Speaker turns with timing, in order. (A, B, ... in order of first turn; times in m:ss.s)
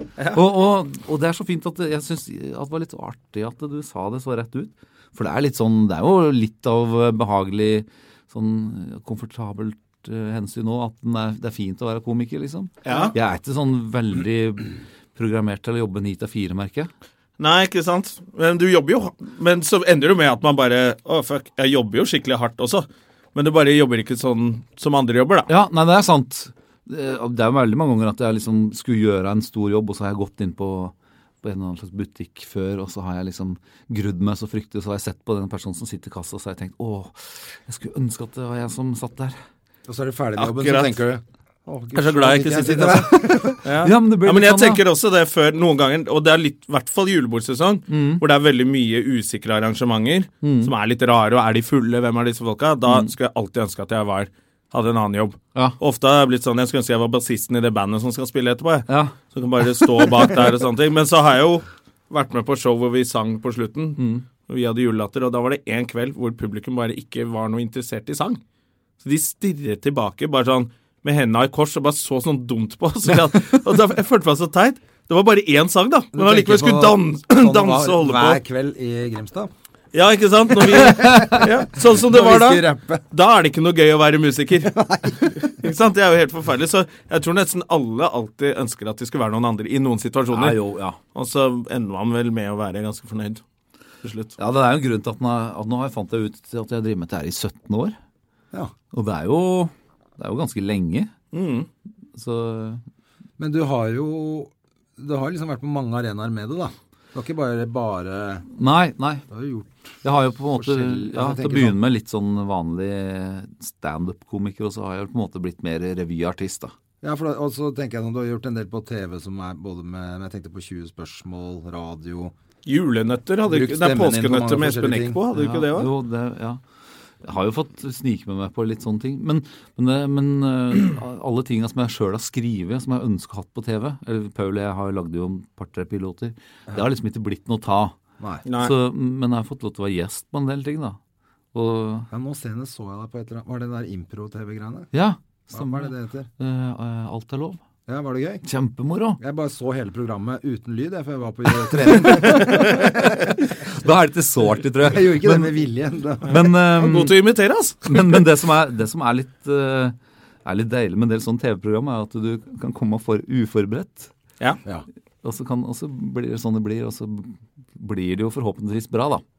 0:00.3-0:16.9 A
0:12.8-0:13.1 B
0:17.4-0:25.5 B
0:25.5-0:39.4 A
0:39.9-0:43.6 C
0:40.4-0:41.0 B
0:42.0-1:08.4 B
0:43.4-0:44.8 A
0:47.9-0:48.2 A
0:50.4-0:50.7 A
0:58.9-0:59.2 A
0:59.8-1:00.1 A
1:04.0-1:04.2 A
1:09.0-1:18.4 B
1:16.1-1:19.5 C
1:19.9-1:24.7 B
1:21.0-1:21.3 A
1:21.8-1:23.0 C
1:24.6-1:25.4 C
1:25.4-1:30.6 B
1:30.3-1:31.0 A
1:31.1-1:33.4 B
1:34.0-1:34.4 B
1:34.4-1:38.0 A
1:38.9-1:41.1 A
1:41.3-1:41.7 B
1:42.2-1:42.8 A
1:43.4-1:48.5 C
1:48.6-1:49.2 A
1:49.3-1:49.9 C
1:50.0-1:56.7 A
1:50.6-1:51.8 C
1:57.0-2:02.3 C
2:02.6-2:05.9 B
2:03.5-2:05.2 C
2:05.3-2:06.6 A
2:07.2-2:18.0 A
2:18.5-2:18.7 B
2:18.6-2:21.0 A
2:21.5-2:22.1 A
2:22.1-2:24.9 C
2:24.9-2:27.6 A
2:25.5-2:26.3 C
2:27.9-2:28.4 C
2:28.4-2:29.2 A
2:29.2-2:33.4 C
2:32.0-2:33.1 A
2:33.6-2:35.6 A
2:34.8-2:36.4 C
2:36.3-2:37.2 A
2:36.3-2:38.2 B
2:37.9-2:44.1 A
2:45.2-2:49.2 A